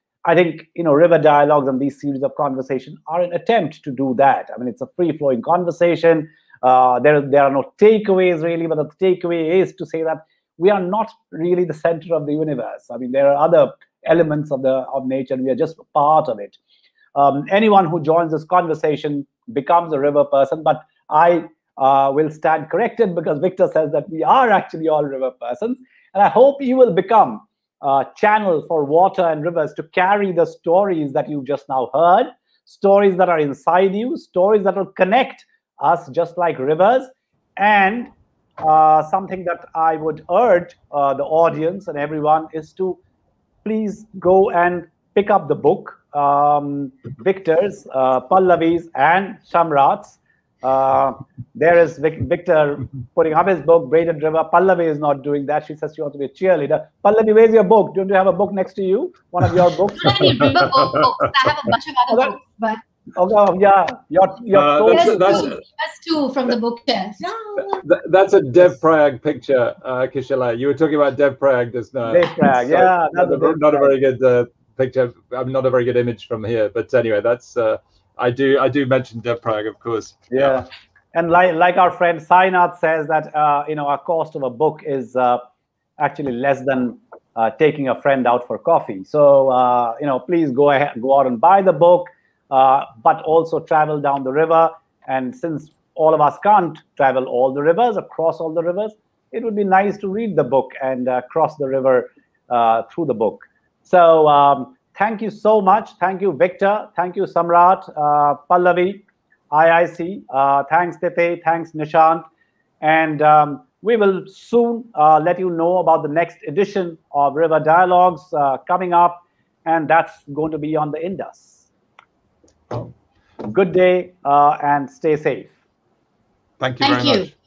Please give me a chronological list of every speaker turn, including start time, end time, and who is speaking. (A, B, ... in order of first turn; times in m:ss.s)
0:00.2-0:16.6 A
0:17.1-0:43.0 A
0:43.6-1:00.4 A
0:59.9-1:02.8 B
1:03.1-1:05.5 A
1:04.5-1:05.6 C
1:04.9-1:07.8 B
1:07.8-1:20.6 C
1:12.1-1:13.9 A
1:20.3-1:25.4 A
1:26.0-1:52.2 A
1:52.8-2:01.7 A
2:03.4-2:05.5 A
2:06.6-2:07.3 C
2:06.8-2:07.3 B